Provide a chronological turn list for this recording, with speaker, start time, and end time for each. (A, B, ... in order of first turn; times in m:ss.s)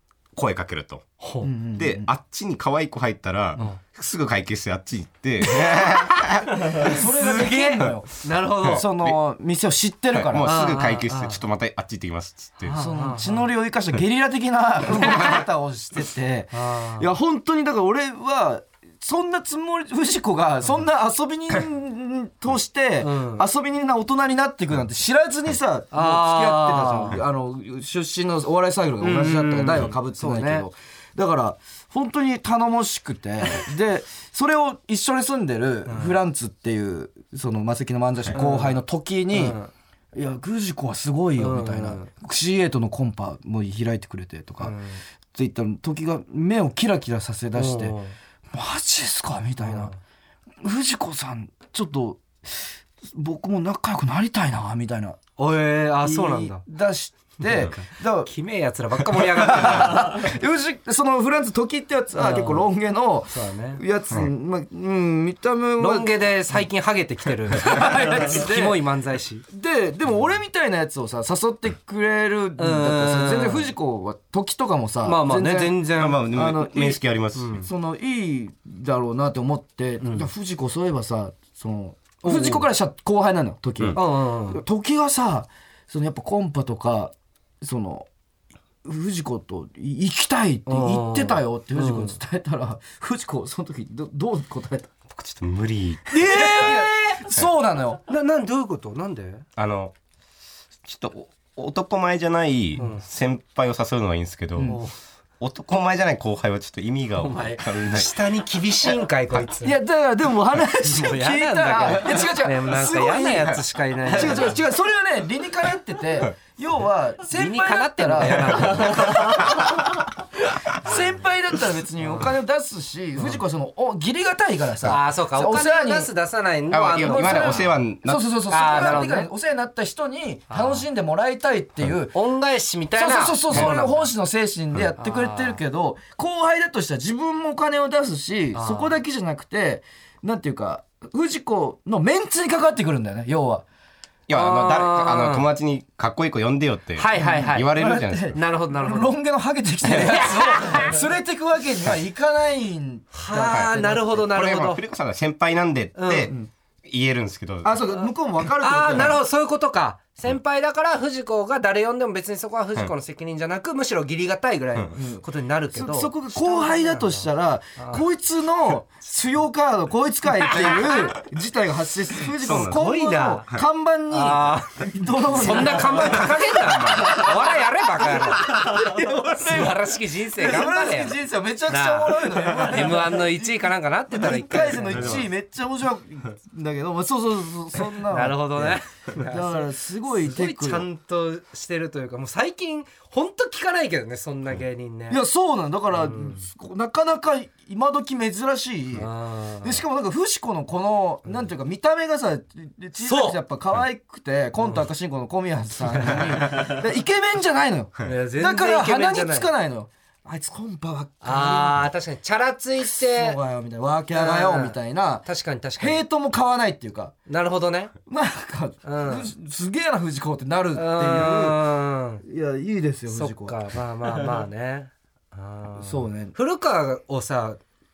0:00.4-0:01.1 A
0:01.2-0:01.5 B
0:01.4-0:02.1 C
0:01.8-0:07.0 A
0:05.7-0:08.9 B
0:06.8-0:10.6 C
0:07.8-0:09.2 A
0:10.1-0:12.8 A
0:10.4-0:11.4 B
0:12.6-0:13.5 B
0:12.8-0:39.6 C
0:14.9-0:15.3 B
0:16.5-0:17.1 B
0:23.0-0:23.4 B
0:25.9-0:27.2 B
0:29.0-0:30.7 B
0:35.9-0:36.2 B
0:38.3-0:38.8 B
0:39.3-0:39.7 B
0:40.1-0:44.8 C
0:41.4-0:42.1 B
0:44.6-0:45.0 B
0:45.3-0:48.0 C
0:47.5-0:48.2 B
0:48.5-0:49.9 C
0:49.6-0:50.0 B
0:50.6-0:55.2 C
0:55.4-0:56.6 B
0:56.0-0:58.3 C
0:57.4-1:00.2 B
0:59.2-1:06.6 C
1:02.2-1:02.7 B
1:03.3-1:03.8 B
1:05.8-1:09.5 B
1:07.6-1:08.8 C
1:09.5-1:17.0 C
1:12.6-1:13.7 B
1:15.0-1:16.2 B
1:15.9-1:17.7 A
1:17.4-1:17.7 B
1:17.6-1:28.1 C
1:20.0-1:20.3 B
1:22.2-1:22.7 B
1:24.0-1:24.6 B
1:28.8-1:35.0 C
1:30.7-1:32.2 B
1:35.2-1:36.8 A
1:36.1-1:38.0 C
1:38.1-1:39.5 B
1:39.6-1:39.9 A
1:40.8-1:44.8 A
1:42.8-1:43.1 B
1:44.6-1:44.8 C
1:44.6-1:45.0 B
1:45.4-1:48.1 A
1:47.2-1:49.8 B
1:49.6-2:06.1 C
1:50.8-1:54.6 B
1:54.1-1:54.5 A
1:57.3-1:59.2 B
1:58.9-1:59.4 A
2:02.0-2:02.3 B
2:04.8-2:07.7 B
2:06.7-2:09.0 A
2:07.0-2:12.2 C
2:08.5-2:09.3 B
2:10.5-2:10.9 B
2:12.1-2:14.1 B
2:13.0-2:23.6 C
2:15.0-2:15.6 B
2:18.5-2:19.0 B
2:24.3-2:28.4 A
2:24.3-2:25.5 B
2:27.0-2:27.7 B
2:27.1-2:34.3 C
2:28.3-2:29.2 B
2:29.8-2:31.0 B
2:33.1-2:34.8 B
2:33.5-2:37.8 A
2:36.0-2:36.3 B
2:37.6-2:39.2 C
2:37.9-2:48.0 B
2:44.9-2:59.8 C
2:50.4-2:51.1 B
2:52.4-2:53.0 A
2:52.6-2:53.5 B
2:54.1-2:54.8 B
2:55.3-2:58.8 B
2:55.6-2:57.2 A
2:59.4-3:05.3 B
3:00.4-3:10.9 C
3:04.9-3:05.2 A
3:08.1-3:15.2 B
3:15.1-3:19.1 C
3:15.9-3:16.5 B
3:19.0-3:19.8 B
3:19.6-3:31.9 C
3:23.0-3:23.4 B
3:24.6-3:24.9 B
3:25.8-3:26.7 B
3:28.0-3:29.5 B
3:31.2-3:33.4 B
3:32.8-3:35.3 C
3:34.1-3:36.0 B
3:35.8-3:37.1 C
3:37.3-3:37.9 B
3:38.1-3:41.6 C
3:38.8-3:39.3 B
3:40.8-3:42.2 B
3:42.2-3:43.6 C
3:43.1-3:47.6 B
3:45.8-3:46.4 C